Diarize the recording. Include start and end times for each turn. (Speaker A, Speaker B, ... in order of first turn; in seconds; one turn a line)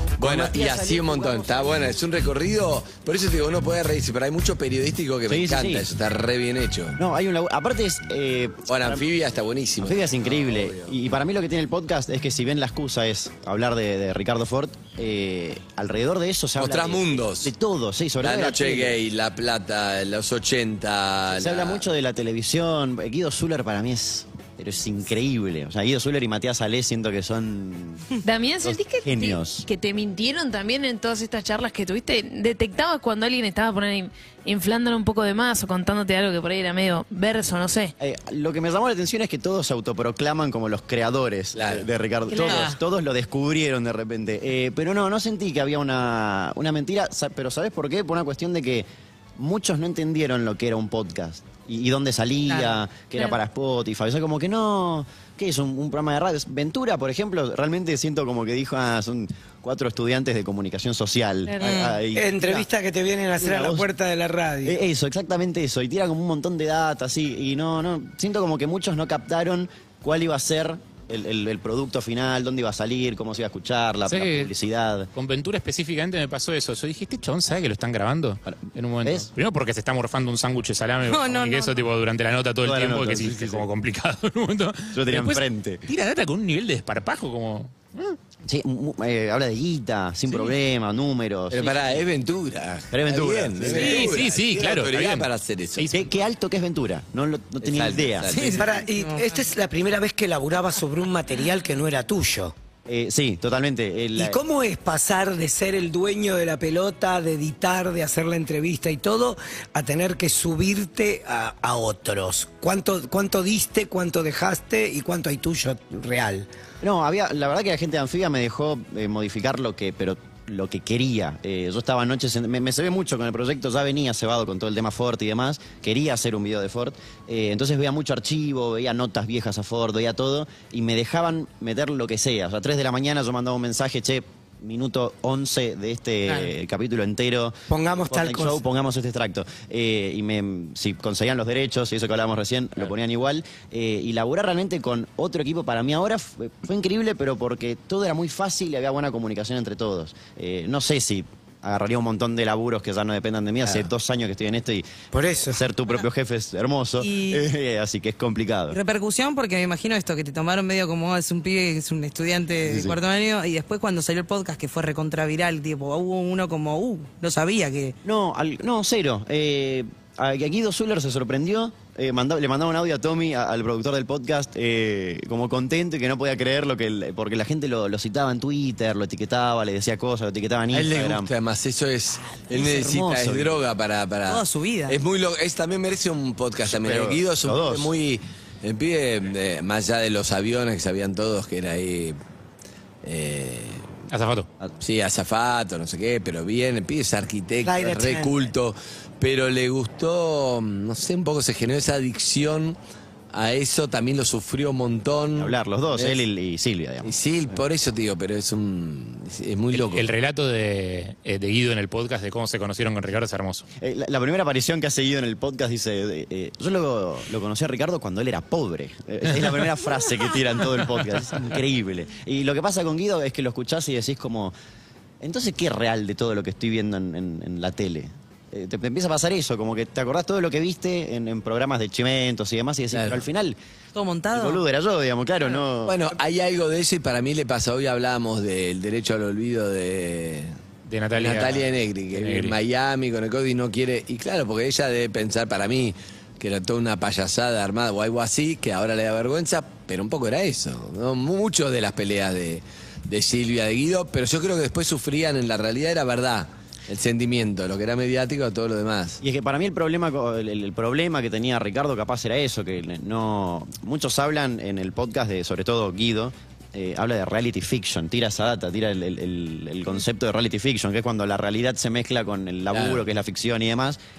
Speaker A: 0.2-7.0
Speaker B: 0.2-0.8
Speaker B: 5.3-5.9
Speaker B: 7.0-9.0
Speaker A: 8.7-10.9
Speaker B: 9.8-18.9
Speaker A: 16.6-17.5
Speaker A: 18.2-21.9
Speaker B: 21.3-28.1
Speaker C: 28.2-37.9
Speaker B: 28.6-29.6
Speaker B: 38.0-62.7
Speaker A: 41.5-41.9
Speaker C: 42.3-42.7
Speaker D: 42.3-42.8
Speaker D: 52.5-52.8
Speaker C: 61.5-61.8
Speaker D: 61.6-62.0
Speaker E: 62.1-64.8
Speaker B: 63.4-63.9
Speaker B: 64.6-75.1
Speaker F: 74.1-74.5
Speaker F: 75.1-88.2
Speaker B: 78.5-79.3
Speaker D: 81.0-81.8
Speaker B: 82.6-83.7
Speaker B: 84.9-85.8
Speaker B: 88.5-92.0
Speaker A: 91.5-95.9
Speaker B: 92.9-94.1
Speaker F: 93.8-96.1
Speaker B: 95.9-98.6
Speaker A: 97.6-98.7
Speaker D: 98.3-99.5
Speaker E: 98.6-102.5
Speaker B: 102.9-104.4
Speaker E: 104.2-116.5
Speaker B: 116.8-154.9
Speaker D: 136.3-136.5
Speaker E: 137.7-138.6
Speaker E: 155.1-155.6
Speaker B: 155.5-158.8
Speaker D: 157.0-157.4
Speaker D: 158.7-167.9
Speaker B: 162.6-163.0
Speaker B: 168.0-181.3
Speaker A: 180.7-192.2
Speaker B: 182.5-183.6
Speaker D: 184.3-185.0
Speaker B: 186.7-187.9
Speaker A: 193.0-193.9
Speaker F: 194.1-194.5
Speaker A: 194.8-202.8
Speaker E: 197.6-198.4
Speaker A: 203.3-206.2
Speaker B: 205.4-207.6
Speaker A: 207.0-210.1
Speaker F: 209.7-213.6
Speaker B: 213.8-224.5
Speaker B: 225.2-233.6
Speaker A: 232.9-233.2
Speaker D: 233.9-234.6
Speaker B: 234.3-236.0
Speaker A: 235.8-240.5
Speaker F: 240.9-242.6
Speaker A: 241.2-259.2
Speaker B: 259.2-274.0
Speaker A: 272.7-273.0